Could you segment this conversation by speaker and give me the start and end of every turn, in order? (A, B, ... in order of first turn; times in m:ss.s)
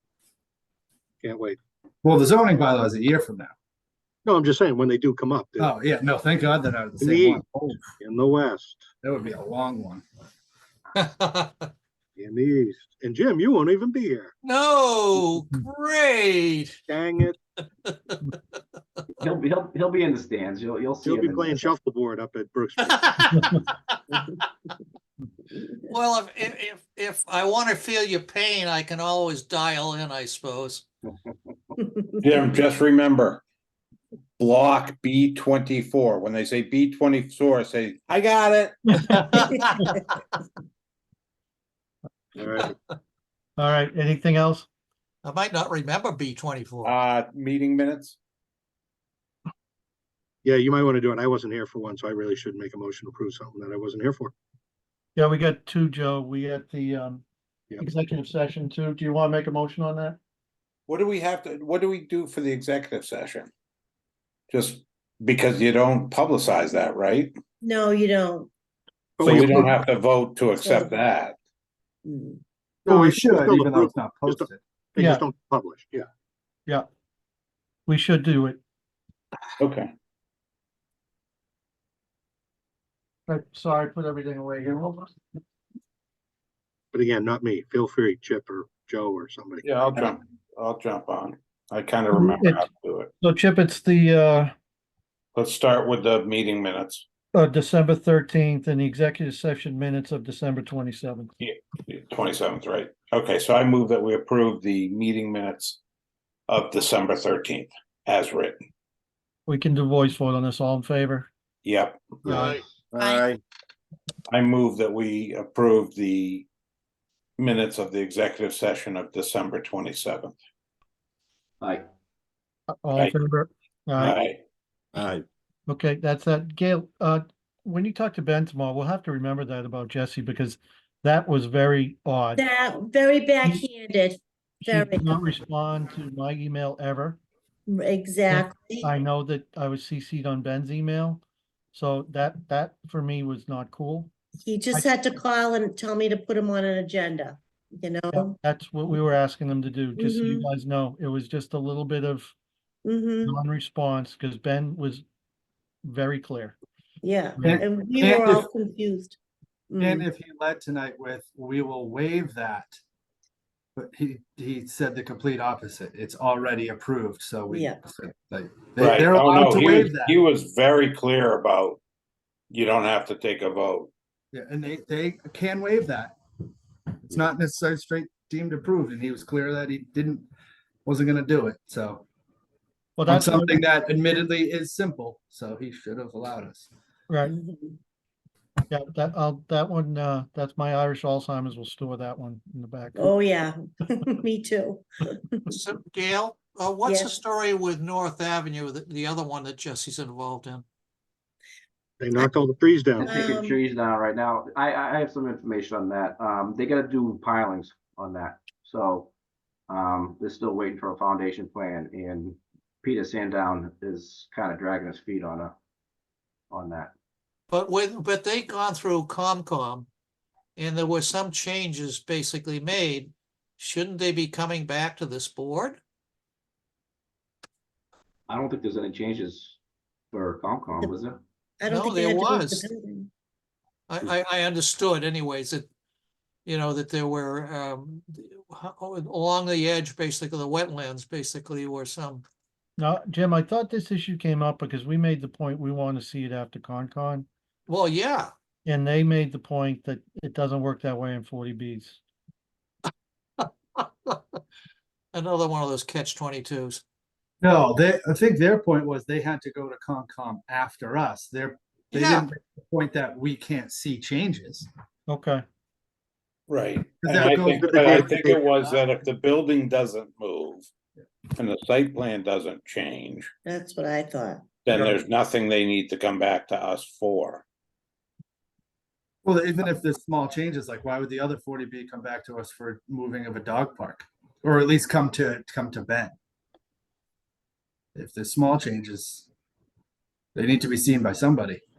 0:01.2-0:01.6 A
0:02.0-0:03.5 B
0:04.3-0:05.7 A
0:05.6-0:07.9 B
0:07.0-0:07.4 A
0:08.0-0:08.9 A
0:09.0-0:10.0 B
0:11.0-0:11.6 C
0:12.2-0:14.3 A
0:14.4-0:16.8 C
0:16.9-0:17.4 A
0:17.9-0:18.2 C
0:19.2-0:21.8 D
0:21.0-0:23.4 A
0:22.9-0:24.2 C
0:25.9-0:30.8 C
0:31.3-0:31.5 D
0:31.8-0:32.1 E
0:32.2-0:33.4 F
0:34.4-0:38.8 F
0:39.0-0:39.6 G
0:39.1-0:40.0 C
0:42.4-0:42.7 A
0:43.6-0:44.7 G
0:45.2-0:46.9 C
0:46.8-0:48.2 F
0:50.4-0:54.3 A
0:55.2-0:57.2 G
0:57.8-1:00.2 G
1:00.9-1:03.5 F
1:04.5-1:07.3 F
1:07.6-1:08.5 E
1:09.2-1:09.8 A
1:09.2-1:11.4 F
1:09.3-1:09.7 G
1:10.6-1:10.9 E
1:12.0-1:12.4 E
1:12.9-1:16.1 A
1:12.9-1:14.6 B
1:15.0-1:15.2 G
1:17.9-1:18.6 G
1:19.6-1:19.9 F
1:23.3-1:25.2 G
1:26.9-1:29.7 A
1:29.6-1:33.1 F
1:32.1-1:32.6 G
1:33.2-1:34.5 G
1:35.4-1:37.0 F
1:37.3-1:41.3 G
1:41.4-1:45.8 F
1:46.5-1:48.6 F
1:49.5-1:51.3 G
1:51.6-1:52.5 F
1:52.3-1:52.6 G
1:53.0-1:53.3 E
1:54.3-1:56.5 F
1:57.4-2:00.4 F
2:01.6-2:01.9 D
2:02.7-2:04.2 G
2:04.0-2:04.4 F
2:05.7-2:12.4 G
2:12.4-2:15.3 E
2:14.6-2:17.2 G
2:17.7-2:18.9 E
2:18.3-2:21.2 G
2:21.7-2:24.1 G
2:24.4-2:28.4 E
2:28.1-2:32.3 G
2:30.0-2:30.5 E
2:32.8-2:33.4 E
2:33.2-2:35.0 G
2:35.8-2:36.6 G
2:37.0-2:39.2 E
2:37.4-2:38.5 B
2:39.7-2:40.1 E
2:39.8-2:42.8 B
2:43.8-2:50.2 B
2:47.5-2:47.8 E
2:48.8-2:51.8 F
2:52.5-2:53.9 F
2:54.3-2:56.2 B
2:57.1-3:00.3 B
3:00.8-3:02.0 B
3:03.0-3:03.6 G
3:03.1-3:06.7 B
3:07.1-3:07.3 G
3:07.2-3:07.8 E
3:08.7-3:13.2 G
3:13.0-3:15.4 E
3:15.5-3:20.6 C
3:16.8-3:17.2 E
3:22.0-3:23.1 A
3:23.0-3:29.1 D
3:23.1-3:23.6 E
3:29.7-3:35.6 D
3:36.5-3:36.9 D
3:37.5-3:39.9 C
3:40.6-3:45.8 C
3:48.3-3:49.6 D
3:50.1-3:51.2 D
3:51.6-3:53.1 E
3:51.7-3:52.7 C
3:53.9-3:55.7 C
3:56.4-4:02.2 C
4:02.8-4:07.3 G
4:07.7-4:08.3 C
4:08.7-4:12.0 G
4:13.4-4:14.2 C
4:15.1-4:16.8 C
4:17.4-4:24.7 B
4:21.9-4:22.3 C
4:25.1-4:25.4 G
4:26.5-4:30.7 F
4:27.0-4:28.1 B
4:27.2-4:28.4 A
4:31.4-4:33.3 F
4:33.5-4:34.4 E
4:34.7-4:37.4 F
4:39.2-4:46.1 B
4:48.0-4:49.3 B
4:50.4-4:51.6 B